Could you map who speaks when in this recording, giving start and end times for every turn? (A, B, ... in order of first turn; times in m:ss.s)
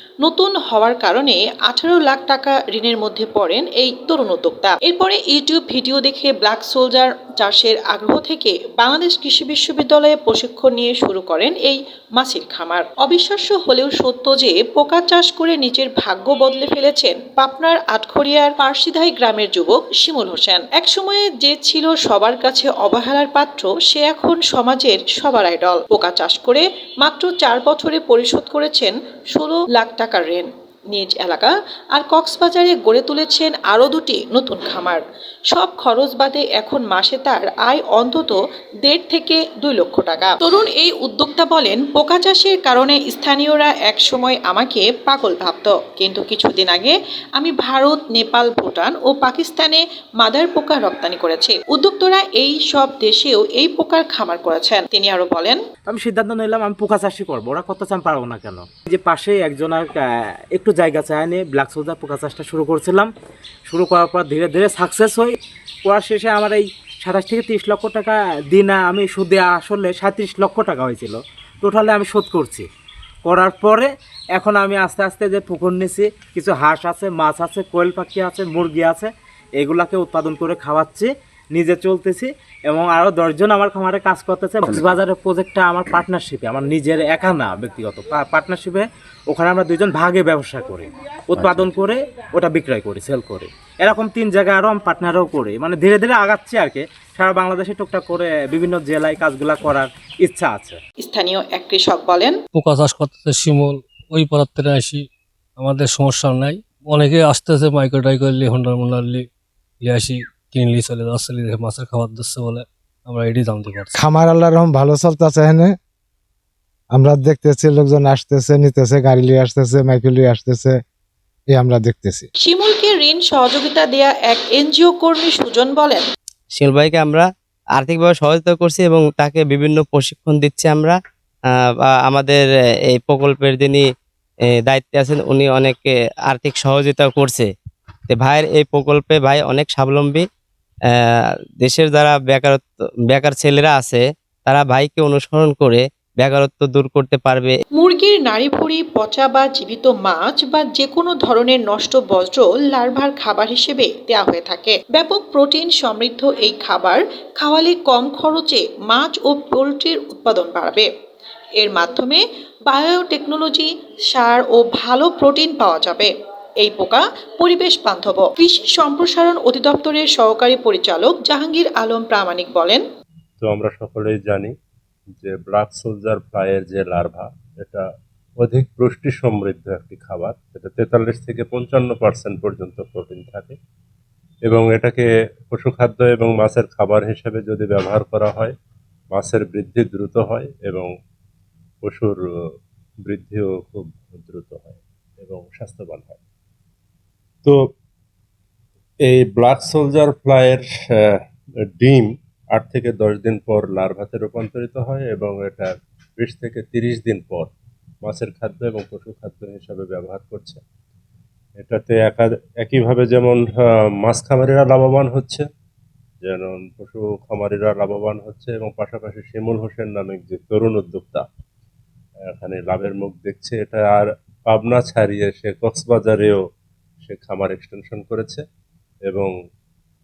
0:00.2-0:55.6 A
0:55.9-1:00.0 B
1:00.6-1:03.1 B
1:03.7-1:12.7 B
1:13.3-1:40.8 B
1:41.0-1:42.4 A
1:42.5-1:45.0 C
1:45.6-1:49.3 C
1:49.8-1:54.0 C
1:54.0-1:55.7 D
1:56.9-2:00.8 D
2:01.5-2:02.3 D
2:02.4-2:06.0 A
2:06.5-2:11.0 E
2:11.8-2:13.8 E
2:14.7-2:17.5 E
2:18.1-2:20.3 E
2:21.6-2:27.6 E
2:27.8-2:40.9 A
2:41.6-2:52.8 A
2:53.4-2:54.5 F
2:55.2-2:57.8 F
2:58.4-3:03.6 F
3:04.5-3:08.6 F
3:09.1-3:10.9 F
3:11.8-3:12.2 F
3:13.1-3:16.2 F
3:19.0-3:21.0 F
3:21.8-3:27.5 F
3:28.0-3:30.6 F
3:31.6-3:35.5 F
3:36.2-3:41.3 F
3:42.3-3:46.4 F
3:47.0-3:48.4 F
3:49.1-3:49.3 F